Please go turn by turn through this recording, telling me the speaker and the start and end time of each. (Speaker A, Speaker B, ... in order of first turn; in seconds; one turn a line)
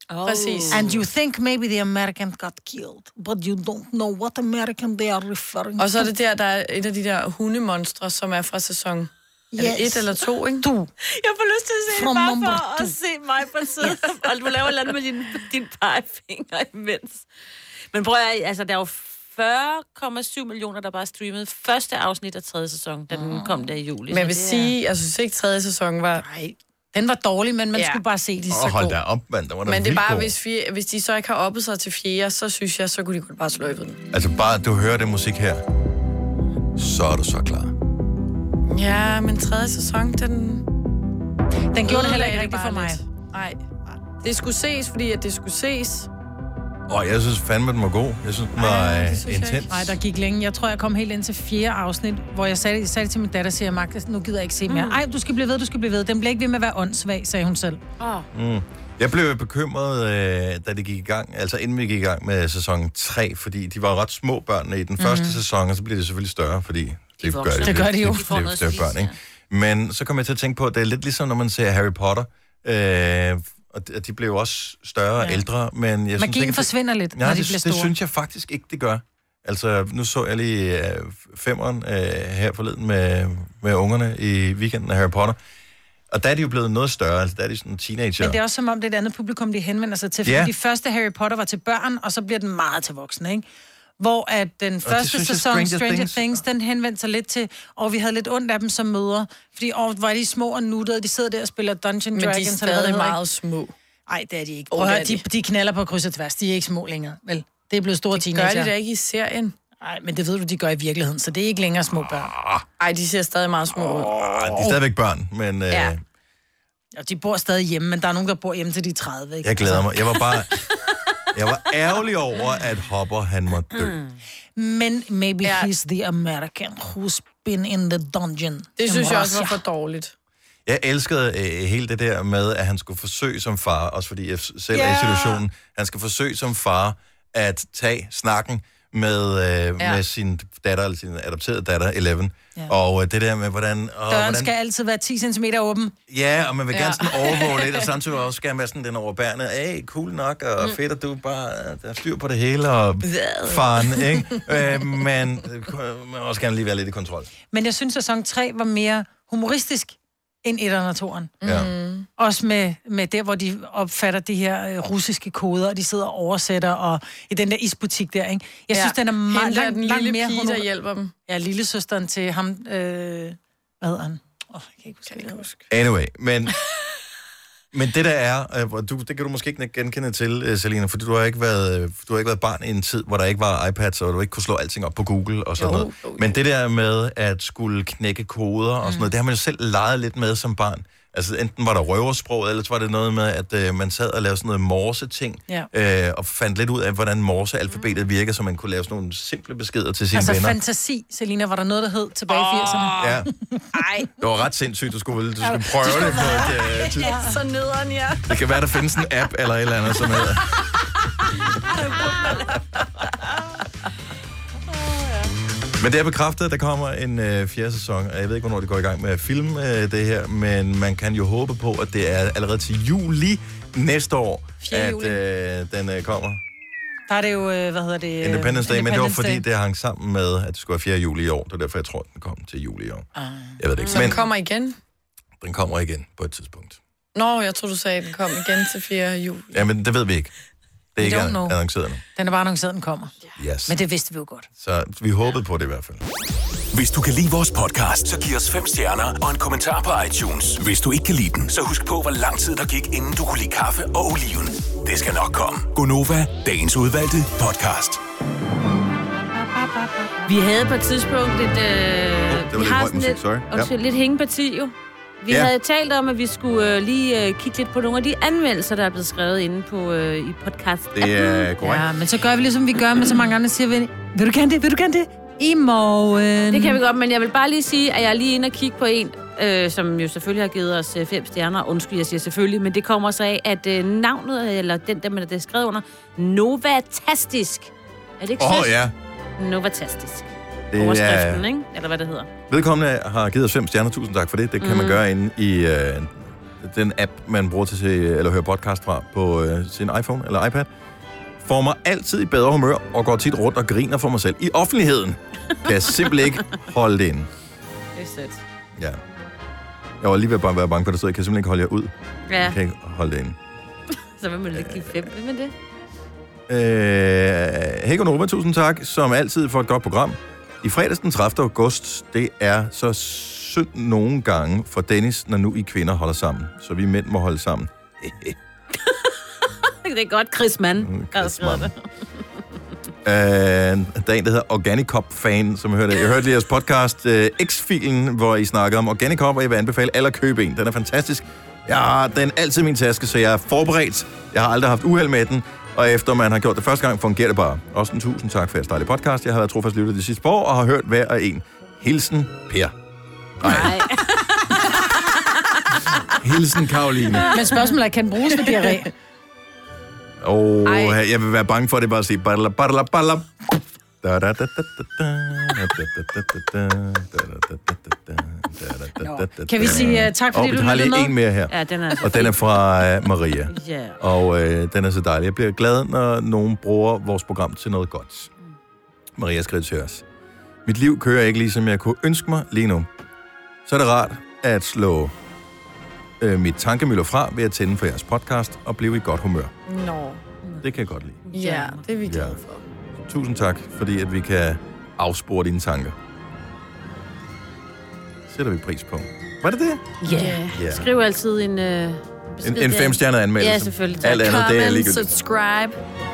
Speaker A: 0.1-1.0
Speaker B: 0.2-1.0
Speaker C: 0.7-6.1
Speaker B: 5.8-10.7
Speaker C: 9.6-10.9
Speaker A: 11.0-17.2
Speaker C: 11.9-12.9
Speaker A: 17.9-24.8
Speaker C: 23.1-23.5
Speaker B: 24.1-26.3
Speaker C: 26.2-28.8
Speaker B: 27.7-28.9
Speaker D: 28.5-30.4
Speaker B: 29.6-34.0
Speaker D: 34.1-35.6
Speaker D: 36.8-37.7
Speaker B: 38.7-40.6
Speaker C: 41.7-43.0
Speaker B: 41.8-46.1
Speaker D: 46.9-50.0
Speaker B: 48.6-49.7
Speaker C: 49.7-57.8
Speaker A: 54.7-55.0
Speaker A: 58.0-58.3
Speaker D: 58.3-85.4
Speaker C: 65.0-65.4
Speaker A: 67.2-69.1
Speaker C: 67.6-68.2
Speaker C: 75.2-75.5
Speaker C: 76.2-77.9
Speaker D: 86.1-88.4
Speaker C: 88.2-93.5
Speaker D: 90.2-90.5
Speaker C: 94.0-103.2
Speaker D: 94.8-96.2
Speaker B: 102.1-103.7
Speaker C: 104.1-108.7
Speaker B: 104.7-105.2
Speaker B: 108.2-109.5
Speaker C: 109.8-112.4
Speaker D: 112.4-112.6
Speaker B: 112.8-114.3
Speaker D: 114.3-116.0
Speaker C: 114.5-114.8
Speaker C: 117.0-119.9
Speaker D: 119.4-120.5
Speaker D: 121.3-124.0
Speaker C: 124.6-129.6
Speaker B: 125.4-125.7
Speaker B: 128.8-130.1
Speaker D: 130.7-144.5
Speaker C: 134.7-135.4
Speaker C: 144.1-146.0
Speaker D: 146.1-157.3
Speaker B: 146.7-147.9
Speaker B: 153.1-154.4
Speaker C: 157.5-161.4
Speaker B: 161.4-162.1
Speaker D: 161.4-161.7
Speaker C: 162.2-170.7
Speaker B: 168.7-171.1
Speaker C: 171.3-175.5
Speaker B: 175.1-175.6
Speaker D: 175.7-176.6
Speaker D: 177.7-200.6
Speaker B: 185.6-186.4
Speaker C: 188.8-189.1
Speaker C: 200.1-203.7
Speaker B: 202.3-203.1
Speaker D: 203.0-203.3
Speaker B: 203.7-204.1
Speaker D: 204.2-207.1
Speaker B: 205.8-208.3
Speaker C: 207.0-207.3
Speaker D: 208.3-210.4
Speaker A: 211.7-212.8
Speaker D: 215.8-226.4
Speaker C: 224.6-225.2
Speaker C: 227.1-229.4
Speaker D: 228.2-234.2
Speaker C: 233.2-234.2
Speaker B: 233.9-234.8
Speaker D: 235.4-236.8
Speaker B: 237.2-239.6
Speaker D: 239.5-240.3
Speaker D: 240.9-242.0
Speaker C: 241.0-241.6
Speaker C: 242.2-244.5
Speaker D: 243.4-243.8
Speaker D: 244.6-246.0
Speaker E: 246.7-258.0
Speaker A: 260.2-271.5
Speaker D: 262.3-263.7
Speaker D: 270.9-271.9
Speaker C: 271.6-276.8
Speaker A: 276.5-288.8
Speaker D: 288.4-288.9
Speaker A: 289.4-292.3
Speaker D: 290.7-291.4
Speaker D: 292.5-300.7
Speaker A: 294.6-295.0
Speaker D: 301.4-307.3
Speaker A: 307.9-308.4
Speaker D: 310.0-313.4
Speaker A: 312.3-312.6
Speaker A: 314.1-315.5
Speaker D: 314.6-315.1
Speaker D: 316.5-328.4
Speaker A: 328.9-331.8
Speaker D: 330.8-331.7
Speaker D: 333.1-352.7
Speaker D: 353.4-353.7
Speaker A: 353.4-354.4
Speaker D: 356.2-357.3
Speaker C: 357.3-358.9
Speaker A: 357.4-357.7
Speaker D: 360.2-363.3
Speaker D: 364.0-378.3
Speaker C: 369.0-371.1
Speaker A: 371.5-372.3
Speaker A: 373.5-374.0
Speaker D: 379.2-380.0
Speaker D: 380.7-382.9
Speaker D: 383.7-385.1
Speaker D: 386.2-389.5
Speaker B: 389.7-390.2
Speaker D: 390.6-391.2
Speaker A: 391.3-391.8
Speaker B: 391.3-392.6
Speaker D: 392.0-392.4
Speaker D: 393.0-395.9
Speaker D: 398.3-399.9
Speaker A: 400.0-404.5
Speaker B: 400.1-400.5
Speaker D: 400.5-400.9
Speaker D: 402.4-405.1
Speaker B: 404.2-405.8